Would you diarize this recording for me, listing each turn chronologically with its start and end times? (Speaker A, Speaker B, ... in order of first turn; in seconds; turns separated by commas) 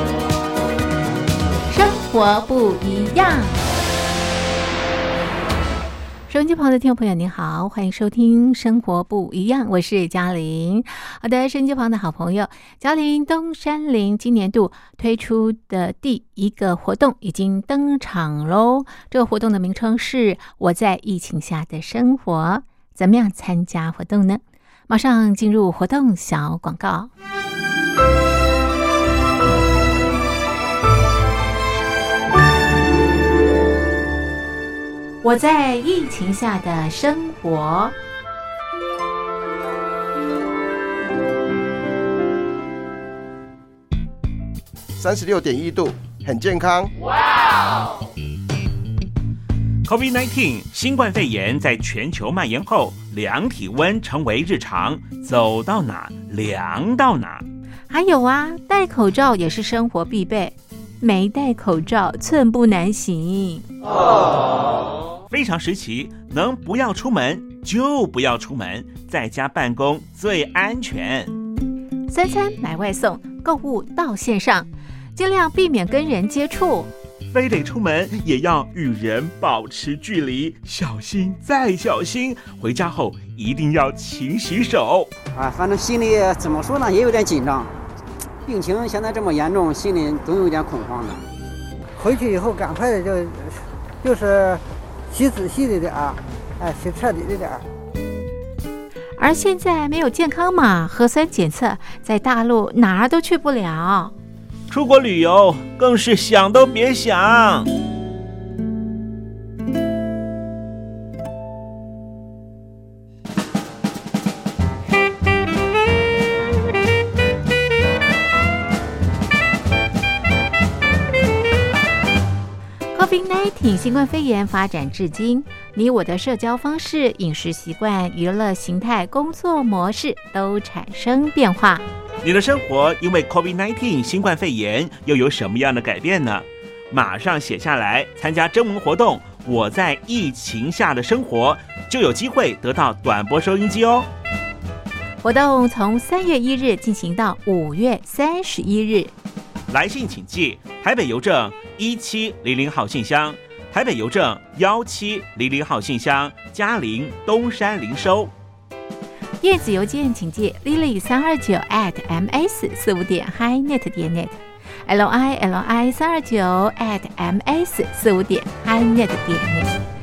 Speaker A: 1.7-3.6, Speaker A: 6.3-27.1, Speaker A: 35.2-37.9, Speaker B: 44.9-46.9, Speaker C: 49.8-57.4, Speaker A: 57.9-63.6, Speaker C: 65.3-71.3, Speaker A: 72.1-76.9, Speaker C: 77.2-85.1, Speaker D: 85.3-87.7, Speaker D: 88.4-91.2, Speaker E: 92.0-97.6, Speaker A: 99.2-104.1, Speaker C: 104.7-107.7, Speaker A: 122.9-131.8, Speaker C: 132.2-144.1, Speaker A: 145.2-149.1, Speaker C: 149.7-158.3, Speaker A: 159.4-169.7